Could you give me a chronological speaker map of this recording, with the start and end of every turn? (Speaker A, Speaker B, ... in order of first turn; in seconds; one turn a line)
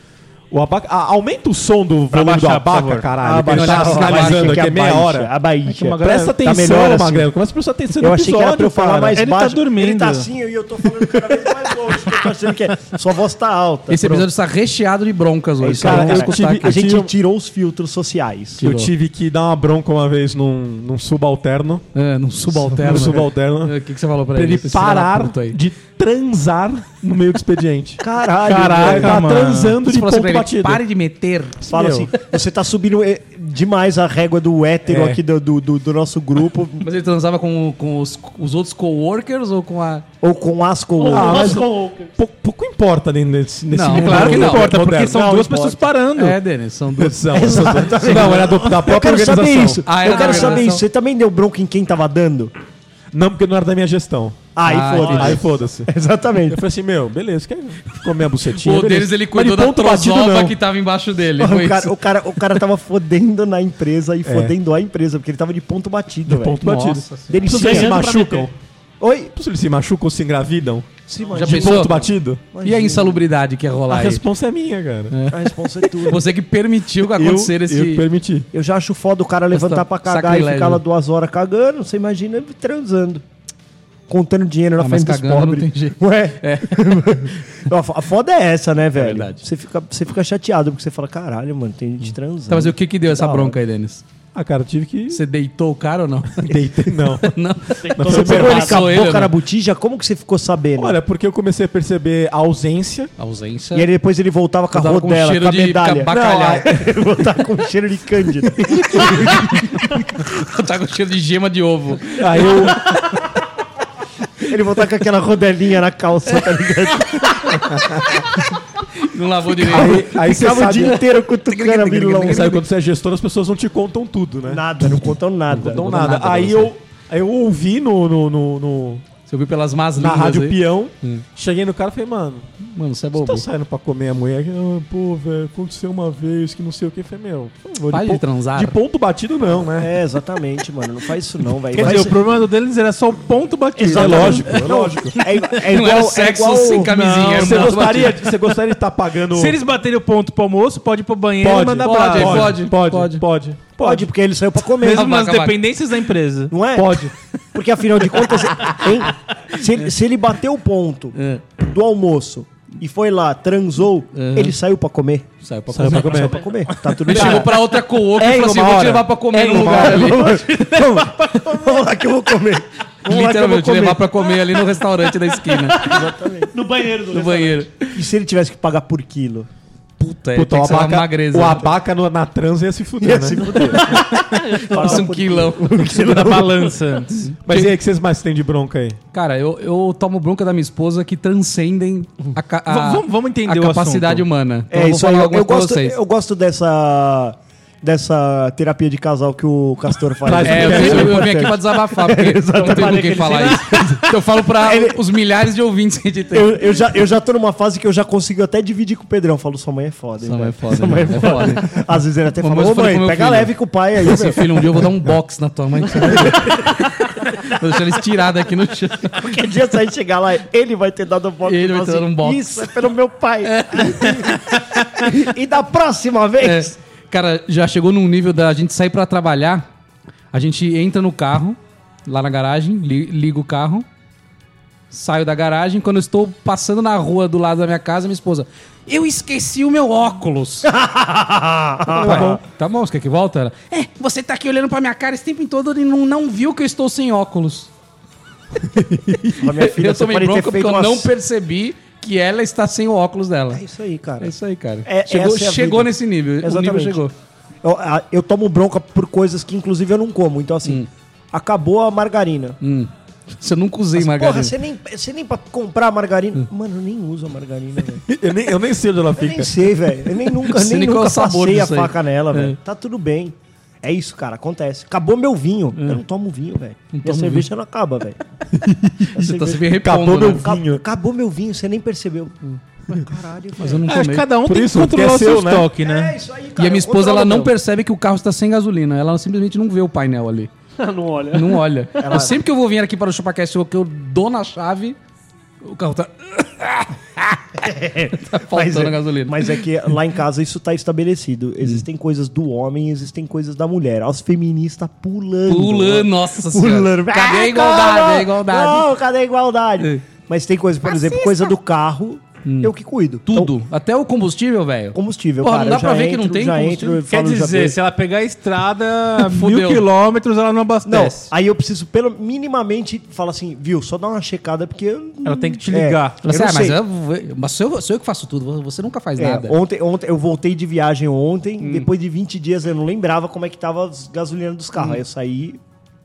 Speaker A: 0.5-5.3
Speaker B: 2.1-3.1
Speaker C: 3.2-7.3
Speaker D: 3.5-4.7
Speaker B: 5.7-6.4
Speaker A: 6.0-9.2
Speaker C: 8.0-14.3
Speaker B: 9.1-10.3
Speaker D: 13.9-16.7
Speaker C: 15.6-18.6
Speaker A: 15.8-17.1
Speaker D: 18.6-18.9
Speaker A: 18.6-21.8
Speaker D: 21.9-25.6
Speaker A: 22.5-23.7
Speaker A: 24.3-30.8
Speaker C: 28.0-29.2
Speaker B: 28.4-29.8
Speaker D: 29.8-31.8
Speaker C: 31.7-36.9
Speaker A: 31.7-32.1
Speaker A: 34.9-35.2
Speaker D: 36.8-40.0
Speaker C: 40.2-41.6
Speaker E: 41.0-42.1
Speaker A: 41.1-45.2
Speaker D: 43.7-44.7
Speaker B: 43.9-46.4
Speaker C: 45.0-45.9
Speaker D: 46.1-48.4
Speaker A: 47.0-49.9
Speaker C: 47.3-52.5
Speaker D: 49.8-50.8
Speaker A: 53.1-55.9
Speaker C: 54.5-56.6
Speaker D: 54.6-55.4
Speaker A: 56.5-60.5
Speaker D: 58.5-61.9
Speaker C: 61.4-66.6
Speaker A: 64.2-64.5
Speaker A: 66.2-68.5
Speaker D: 66.6-67.8
Speaker C: 67.3-68.1
Speaker C: 69.0-69.3
Speaker A: 69.3-72.4
Speaker C: 71.1-73.2
Speaker D: 71.3-72.0
Speaker D: 72.6-74.2
Speaker A: 73.9-75.1
Speaker D: 75.1-78.0
Speaker C: 75.3-76.3
Speaker A: 77.0-78.5
Speaker C: 78.5-83.2
Speaker D: 79.5-80.8
Speaker C: 84.1-93.6
Speaker D: 84.8-86.8
Speaker D: 88.9-89.4
Speaker D: 92.5-94.0
Speaker A: 94.3-95.2
Speaker D: 95.1-99.3
Speaker A: 96.4-97.4
Speaker E: 97.8-98.8
Speaker A: 97.9-98.8
Speaker C: 98.1-101.0
Speaker A: 100.8-103.1
Speaker D: 103.2-103.9
Speaker C: 103.7-109.6
Speaker D: 104.7-106.7
Speaker A: 106.1-106.8
Speaker A: 108.7-109.2
Speaker D: 108.9-112.9
Speaker A: 112.2-112.9
Speaker C: 114.4-117.8
Speaker A: 117.7-118.2
Speaker D: 118.9-120.1
Speaker C: 119.6-122.6
Speaker A: 119.6-121.0
Speaker D: 121.5-122.6
Speaker A: 122.2-129.0
Speaker C: 124.5-126.1
Speaker D: 125.5-126.7
Speaker D: 129.3-131.2
Speaker A: 129.9-132.5
Speaker D: 132.6-133.4
Speaker A: 133.1-139.9
Speaker D: 137.9-138.7
Speaker C: 139.8-142.2
Speaker B: 141.7-144.6
Speaker C: 143.8-147.1
Speaker A: 143.9-145.2
Speaker D: 145.7-148.3
Speaker B: 147.2-147.7
Speaker A: 147.3-149.6
Speaker B: 149.3-152.6
Speaker A: 151.4-154.1
Speaker D: 151.8-153.2
Speaker C: 153.8-155.1
Speaker B: 154.8-156.5
Speaker D: 154.9-155.6
Speaker C: 156.5-157.0
Speaker A: 156.7-157.1
Speaker C: 157.5-167.6
Speaker D: 161.1-161.4
Speaker D: 164.1-164.5
Speaker D: 165.4-166.4
Speaker A: 165.7-166.4
Speaker D: 167.0-170.3
Speaker A: 167.1-167.6
Speaker A: 168.1-170.4
Speaker C: 169.5-174.0
Speaker D: 173.0-175.9
Speaker C: 175.7-176.5
Speaker E: 175.7-177.7
Speaker D: 177.1-178.0
Speaker C: 177.9-179.5
Speaker D: 180.0-181.7
Speaker A: 180.3-183.4
Speaker C: 183.0-186.7
Speaker D: 183.7-185.8
Speaker E: 183.9-185.1
Speaker B: 185.8-187.3
Speaker D: 187.2-187.7
Speaker A: 187.4-189.0
Speaker D: 189.1-196.0
Speaker B: 192.7-194.2
Speaker C: 194.7-205.0
Speaker A: 200.2-201.4
Speaker D: 200.4-206.6
Speaker C: 206.3-214.9
Speaker D: 210.2-211.8
Speaker D: 212.4-219.2
Speaker C: 215.9-216.7
Speaker C: 219.1-226.7
Speaker D: 221.4-222.7
Speaker D: 223.4-225.1
Speaker D: 226.4-229.7
Speaker D: 230.3-233.8
Speaker D: 234.9-240.7
Speaker C: 240.7-242.4
Speaker A: 241.9-242.4
Speaker D: 242.0-247.7
Speaker A: 248.7-249.3
Speaker D: 249.3-253.6
Speaker C: 249.3-251.1
Speaker C: 253.5-254.3
Speaker D: 254.2-257.1
Speaker C: 254.8-257.0
Speaker C: 257.6-262.6
Speaker D: 262.6-264.5
Speaker C: 263.9-268.0
Speaker A: 268.1-269.7
Speaker C: 269.2-278.2
Speaker D: 270.4-272.6
Speaker D: 275.8-276.0
Speaker D: 276.9-277.5
Speaker D: 278.7-280.5
Speaker C: 279.1-279.7
Speaker A: 279.7-280.8
Speaker C: 280.2-283.9
Speaker D: 283.6-284.3
Speaker B: 283.9-286.1
Speaker A: 284.4-285.7
Speaker C: 285.8-287.5
Speaker D: 286.6-290.5
Speaker E: 290.8-291.6
Speaker D: 291.3-295.0
Speaker C: 292.0-292.4
Speaker D: 295.6-299.6
Speaker C: 297.6-313.5
Speaker D: 305.5-308.9
Speaker D: 310.9-311.3
Speaker D: 312.4-312.7
Speaker D: 313.2-317.0
Speaker C: 314.9-317.8
Speaker B: 317.1-321.3
Speaker D: 319.2-319.8
Speaker C: 320.8-326.8
Speaker B: 325.2-326.2
Speaker D: 326.2-329.6
Speaker C: 329.2-335.6
Speaker D: 331.6-331.9